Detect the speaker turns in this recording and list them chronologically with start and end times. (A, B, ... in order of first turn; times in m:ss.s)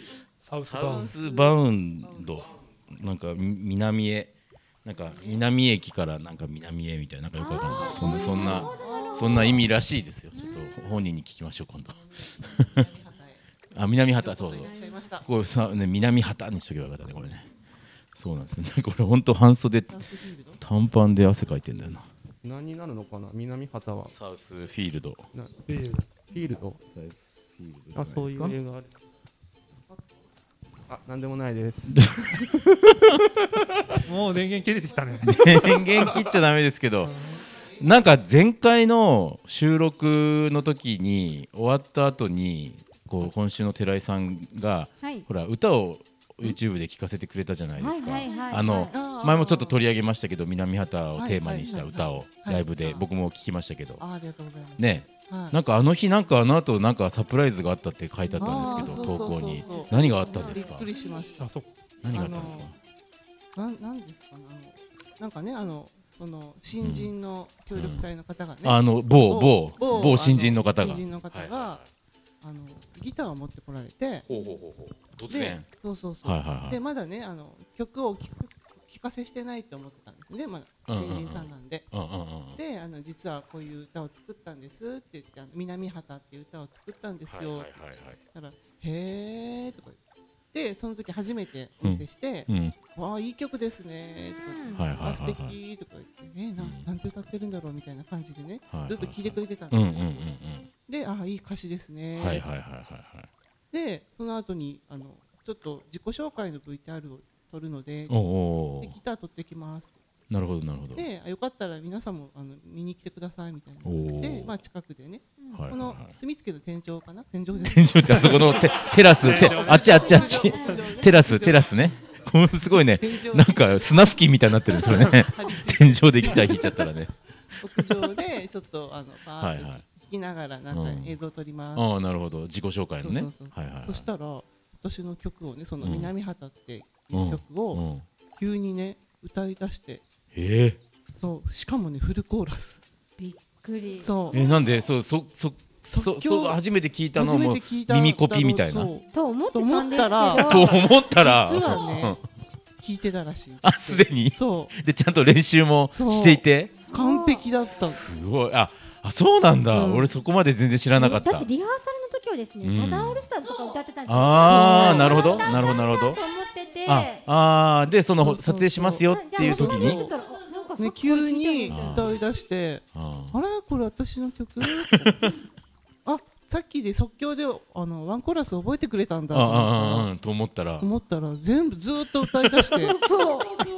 0:00.4-0:01.2 A
0:00.6-0:04.3 B
0:00.8-0:02.3 C
0:04.8-0:12.7 B
0:07.4-0:09.6 D
0:07.7-0:09.6 C
0:10.3-0:10.9 D
0:12.2-0:13.4 C
0:13.7-0:14.7 B
0:14.0-0:15.2 C
0:15.2-0:17.5 B
0:18.1-0:20.0 B
0:19.9-0:20.6 C
0:20.6-0:22.0 B
0:22.4-0:24.1 E
0:24.1-0:25.3 B
0:25.3-0:25.6 E
0:25.6-0:26.2 A
0:26.3-0:26.8 E
0:26.5-0:28.5 B
0:27.9-0:28.9 E
0:30.9-0:32.0 E
0:31.9-0:33.1 B
0:34.0-0:35.4 A
0:35.2-0:37.1 B
0:37.8-0:54.0 B
0:47.8-0:48.9 D
0:48.6-0:49.8 C
0:51.2-0:53.0 C
0:54.0-0:55.6 C
0:54.8-1:00.9 B
0:58.3-1:01.4 C
0:58.6-1:00.6 D
1:01.4-1:01.7 A
1:02.0-1:02.7 B
1:02.1-1:02.7 C
1:03.6-1:11.8 C
1:06.8-1:07.1 B
1:07.7-1:08.1 B
1:08.6-1:11.9 B
1:12.4-1:14.3 C
1:14.3-1:15.7 B
1:15.3-1:21.9 C
1:16.2-1:16.8 B
1:20.9-1:22.6 B
1:22.6-1:27.7 C
1:27.2-1:28.2 B
1:28.3-1:30.0 C
1:30.5-1:40.3 C
1:31.8-1:32.8 B
1:34.3-1:34.8 D
1:34.7-1:35.6 B
1:36.6-1:36.8 B
1:38.7-1:40.7 B
1:40.8-1:42.4 C
1:42.2-1:43.3 B
1:43.7-1:48.2 C
1:48.1-1:49.0 B
1:48.8-1:50.0 C
1:50.3-1:51.0 B
1:50.9-2:01.7 C
1:53.8-1:54.5 B
1:55.4-1:55.7 D
1:55.5-1:56.1 B
1:57.6-2:07.1 B
1:58.1-2:00.9 A
2:03.0-2:04.2 C
2:04.7-2:06.8 C
2:07.6-2:11.9 C
2:09.4-2:09.8 B
2:10.7-2:11.2 B
2:11.7-2:14.0 B
2:13.0-2:17.8 C
2:15.8-2:16.1 B
2:17.1-2:18.0 B
2:18.4-2:20.0 C
2:20.3-2:20.8 B
2:21.2-2:22.8 C
2:23.2-2:24.1 D
2:24.0-2:24.4 C
2:24.3-2:28.9 B
2:25.9-2:26.6 C
2:27.1-2:32.2 C
2:29.1-2:30.7 D
2:30.3-2:32.2 B
2:32.8-2:34.7 C
2:33.6-2:36.7 B
2:35.9-2:38.0 C
2:36.8-2:37.4 D
2:37.8-2:41.5 B
2:39.7-2:40.1 C
2:40.9-2:47.2 D
2:42.6-2:43.2 B
2:44.1-2:46.2 B
2:44.5-2:45.5 C
2:46.8-2:50.1 B
2:48.2-2:50.2 C
2:49.1-2:52.0 D
2:50.8-2:55.3 C
2:51.6-2:52.2 B
2:52.9-2:53.3 B
2:54.6-2:55.3 B
2:56.0-3:00.1 C
2:59.3-3:00.9 B
3:00.8-3:03.0 C
3:02.8-3:03.5 D